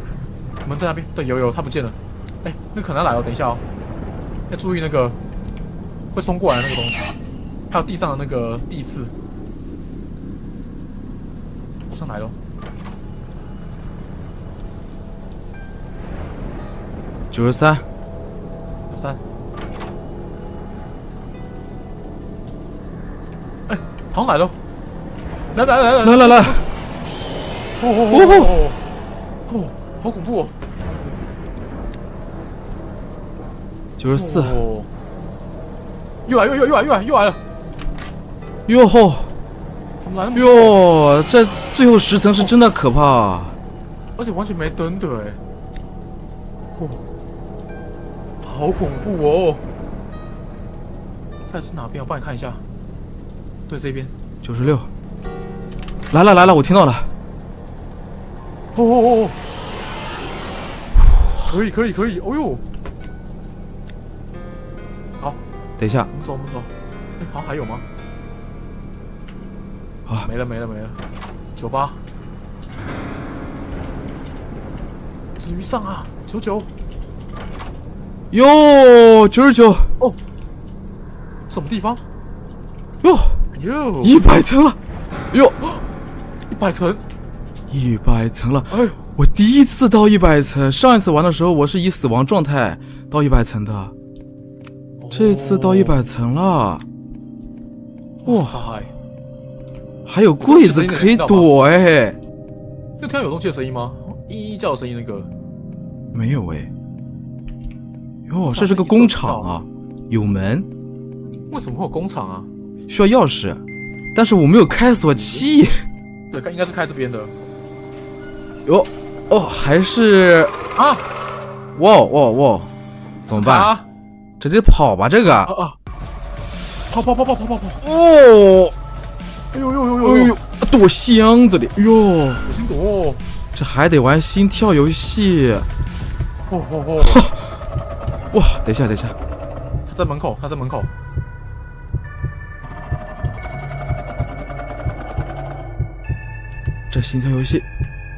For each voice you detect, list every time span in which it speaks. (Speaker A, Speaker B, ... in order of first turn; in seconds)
Speaker A: 0.6-3.6, 4.5-5.2, 6.1-7.1, 7.7-9.1, 11.9-12.3, 18.9-19.2, 23.7-24.5, 25.5-26.6, 27.8-28.8, 29.5-30.5, 34.1-34.9, 36.2-37.4, 40.0-40.8, 44.2-45.4, 46.7-47.0, 48.4-49.6, 51.5-52.6, 53.7-54.1, 58.7-59.4, 61.4-62.6, 66.1-67.8, 70.2-71.0, 71.5-72.0, 75.4-76.7, 81.5-82.0, 83.5-84.2, 86.5-87.0, 88.7-89.0, 95.0-96.0, 98.2-98.9, 100.4-101.5, 103.0-105.3, 108.4-109.5, 111.5-112.5, 116.3-117.3, 120.8-121.0, 123.3-123.8, 125.2-125.8, 126.8-127.8, 129.5-130.4, 132.4-133.2, 136.5-137.2, 139.9-140.9
Speaker B: 17.3-17.8, 26.0-26.6, 28.1-28.5, 34.0-34.6, 38.7-39.3, 40.3-43.6, 54.4-54.9, 56.1-57.1, 61.0-61.5, 65.8-66.1, 78.3-79.9, 83.0-83.4, 84.0-84.8, 85.3-85.6, 87.7-93.9, 95.1-96.8, 98.3-98.7, 100.0-102.2, 106.1-106.7, 108.3-110.7, 112.9-113.6, 114.1-115.8, 118.7-120.5, 121.8-122.7, 123.3-123.7, 124.4-125.5, 127.8-128.7, 130.0-132.5, 133.5-135.7, 137.1-137.4, 138.3-139.2, 146.9-147.7